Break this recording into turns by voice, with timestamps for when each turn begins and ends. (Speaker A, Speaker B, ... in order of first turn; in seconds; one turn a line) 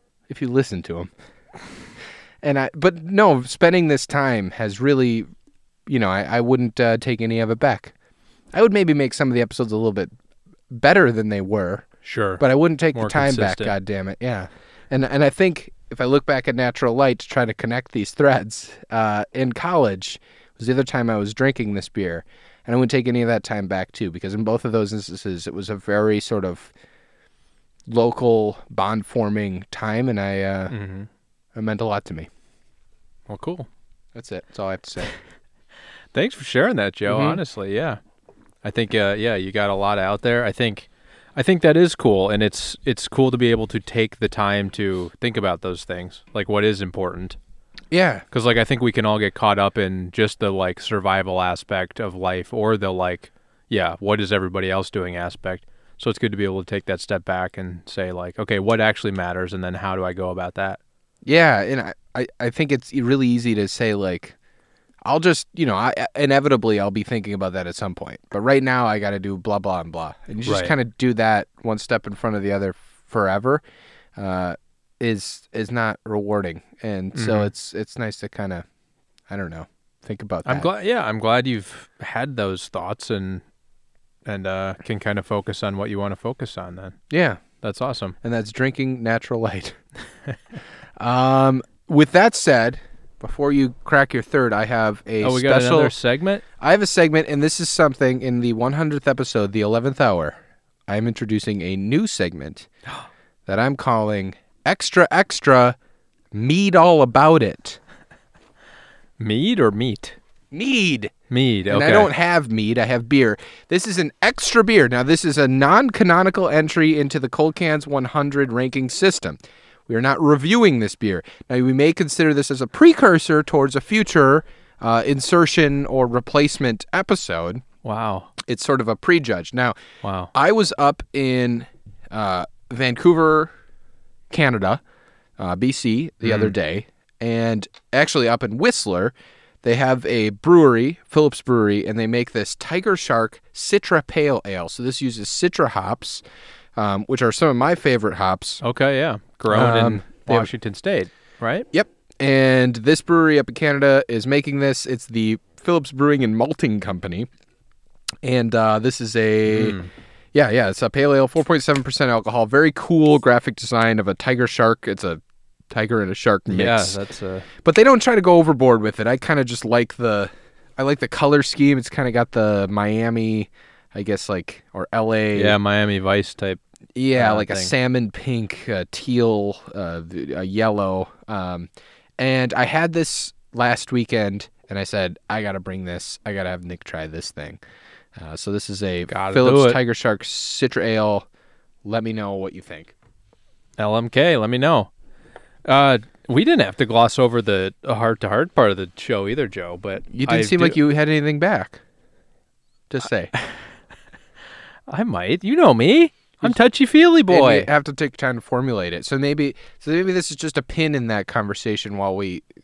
Speaker A: 0.3-1.1
Speaker A: 2.4-5.2
Speaker A: 5.9-7.9
Speaker A: 8.5-10.1
Speaker A: 10.7-26.7
Speaker B: 12.0-12.4
Speaker B: 12.9-13.7
Speaker A: 27.9-30.7
Speaker B: 30.7-31.1
Speaker A: 31.5-32.3
Speaker B: 33.3-33.7
Speaker A: 34.1-35.1
Speaker B: 36.1-38.0
Speaker A: 37.0-37.4
Speaker B: 38.6-47.4
Speaker A: 47.9-48.2
Speaker B: 48.3-60.8
Speaker A: 61.2-64.3
Speaker A: 65.0-73.6
Speaker B: 70.5-70.7
Speaker A: 74.2-78.6
Speaker B: 77.1-77.5
Speaker A: 79.3-80.7
Speaker B: 80.5-83.4
Speaker B: 84.2-87.0
Speaker A: 87.1-87.4
Speaker B: 87.6-88.2
Speaker A: 88.2-89.8
Speaker A: 91.0-95.9
Speaker B: 95.2-96.4
Speaker A: 96.6-102.7
Speaker A: 103.5-105.8
Speaker A: 106.3-107.8
Speaker B: 109.2-110.2
Speaker A: 110.5-111.1
Speaker B: 111.3-112.1
Speaker A: 111.7-127.6
Speaker B: 127.8-128.3
Speaker A: 128.4-129.7
Speaker B: 130.0-130.3
Speaker A: 130.3-133.5
Speaker A: 134.3-134.8
Speaker A: 135.4-146.2
Speaker B: 136.2-136.5
Speaker A: 146.8-148.6
Speaker B: 148.6-151.7
Speaker A: 149.5-150.5
Speaker A: 151.7-157.3
Speaker A: 158.2-159.8
Speaker B: 159.5-159.9
Speaker A: 160.3-167.0
Speaker B: 166.5-167.5
Speaker A: 167.6-175.6
Speaker B: 175.3-176.6
Speaker A: 176.9-187.6
Speaker B: 177.2-177.7
Speaker A: 188.2-191.3
Speaker B: 189.1-189.8
Speaker A: 191.8-192.9
Speaker B: 193.8-194.9
Speaker B: 195.7-200.8
Speaker A: 200.1-201.8
Speaker A: 202.9-203.3
Speaker B: 204.9-207.7
Speaker A: 207.3-212.5